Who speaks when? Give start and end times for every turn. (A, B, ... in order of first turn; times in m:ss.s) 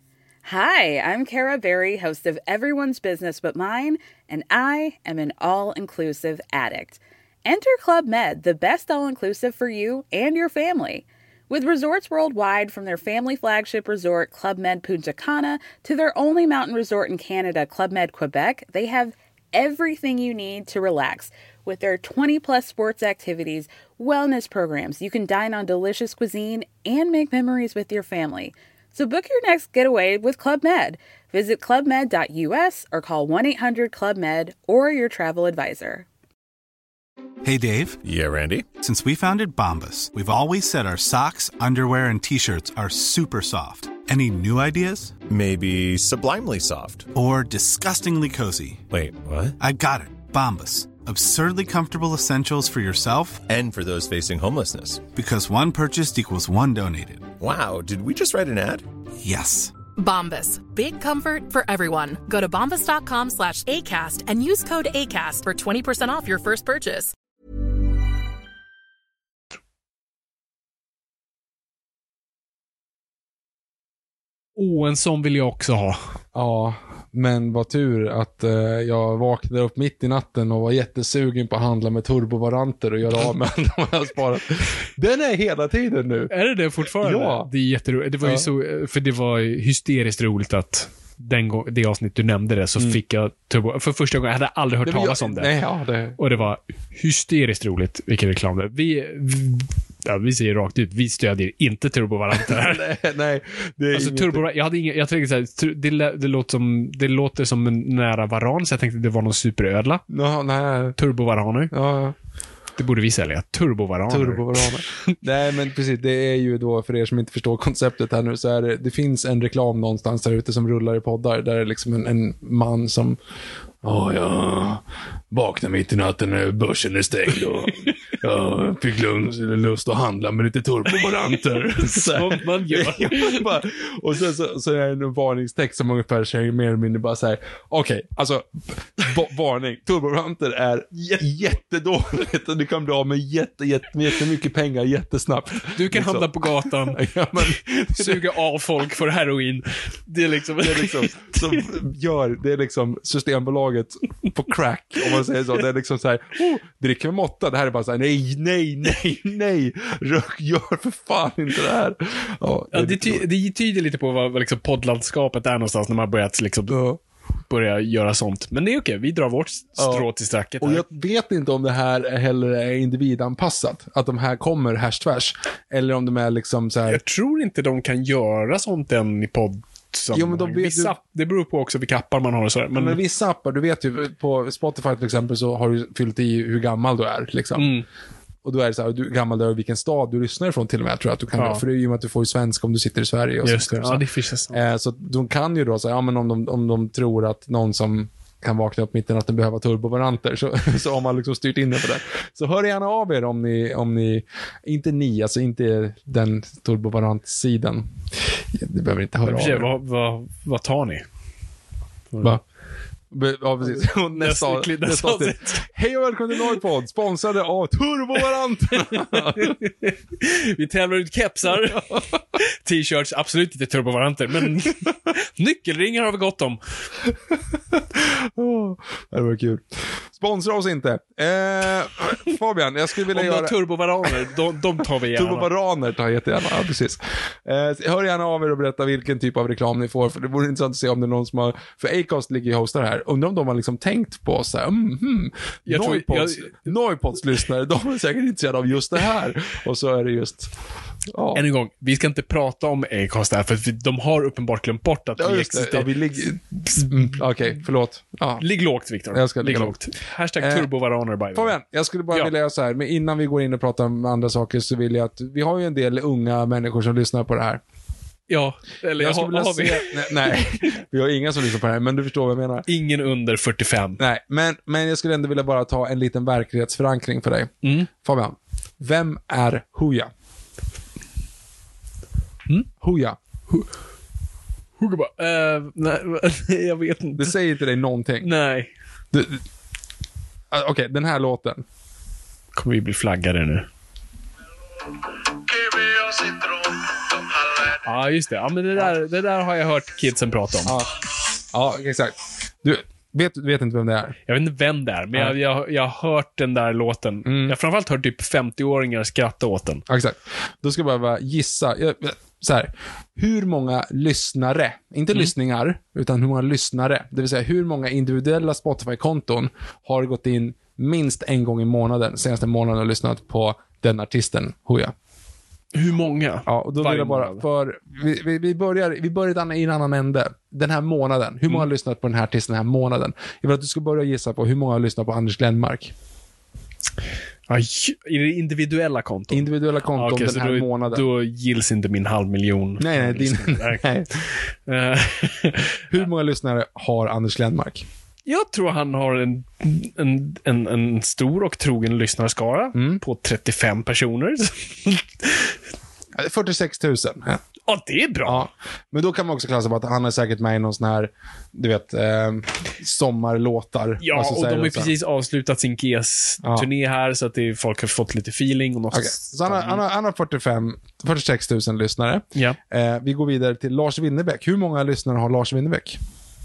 0:00.4-0:36.1 A
0:37.4-0:38.0 B
0:38.0-0:38.7 C
0:38.7-0:45.2 B
0:45.3-0:47.1 C
0:47.1-0:48.8 B
0:48.9-0:49.6 C
0:49.6-0:53.4 B
0:53.5-0:55.1 C
0:55.1-0:57.3 B
0:57.4-0:58.8 C
0:59.2-0:59.8 B
1:00.0-1:07.1 D
1:14.6-1:16.0 E
1:16.3-1:26.3 F
1:26.3-1:35.5 E
1:26.9-1:27.5 F
1:28.2-1:28.5 F
1:34.8-1:36.4 F
1:36.2-1:42.8 E
1:42.3-1:44.4 F
1:43.9-1:50.0 E
1:50.1-1:51.0 F
1:51.0-1:51.7 E
1:51.7-1:52.2 F
1:52.8-1:54.7 E
1:54.1-2:03.2 F
2:03.8-2:28.3 F
2:11.7-2:13.5 E
2:25.7-2:31.6 E
2:30.6-2:43.2 F
2:42.7-2:46.8 E
2:46.7-2:47.0 F
2:47.5-2:50.8 E
2:49.8-2:50.1 F
2:50.6-2:57.0 F
2:56.9-3:03.0 E
3:00.1-3:01.0 F
3:02.7-3:07.7 F
3:07.6-3:07.9 E
3:08.4-3:29.7 F
3:11.4-3:11.6 E
3:13.4-3:14.6 E
3:29.2-3:31.0 E
3:33.1-3:39.6 F
3:33.8-3:35.7 E
3:38.9-3:46.6 E
3:41.6-3:42.0 F
3:47.1-4:10.5 F
3:53.1-3:55.5 E
4:05.7-4:06.7 E
4:11.1-4:11.5 F
4:11.4-4:15.9 E
4:15.2-4:18.4 F
4:18.4-4:21.6 E
4:19.1-4:19.8 F
4:20.4-4:20.7 F
4:21.3-4:27.6 F
4:28.3-4:30.6 E
4:29.0-4:32.7 F
4:32.7-4:34.0 E
4:34.0-4:40.1 F
4:37.6-4:37.9 E
4:42.7-4:43.2 F
4:44.8-4:47.3 E
4:47.2-4:48.3 F
4:48.2-4:48.7 E
4:49.1-4:49.4 F
4:50.5-4:51.6 F
4:52.6-4:53.7 E
4:57.7-5:00.8 E
5:00.6-5:00.9 F
5:01.5-5:04.2 F
5:04.3-5:09.8 E
5:07.2-5:07.6 F
5:09.9-5:24.9 F
5:25.7-5:27.4 E
5:26.5-5:35.9 F
5:37.5-5:45.8 E
5:39.3-5:41.1 F
5:42.8-5:44.1 F
5:45.9-5:47.9 F
5:48.3-5:55.6 E
5:52.7-5:53.0 F
5:56.2-5:57.4 F
5:57.7-5:58.5 E
5:58.2-6:04.9 F
6:04.0-6:09.8 E
6:06.4-6:06.7 F
6:08.9-6:16.0 F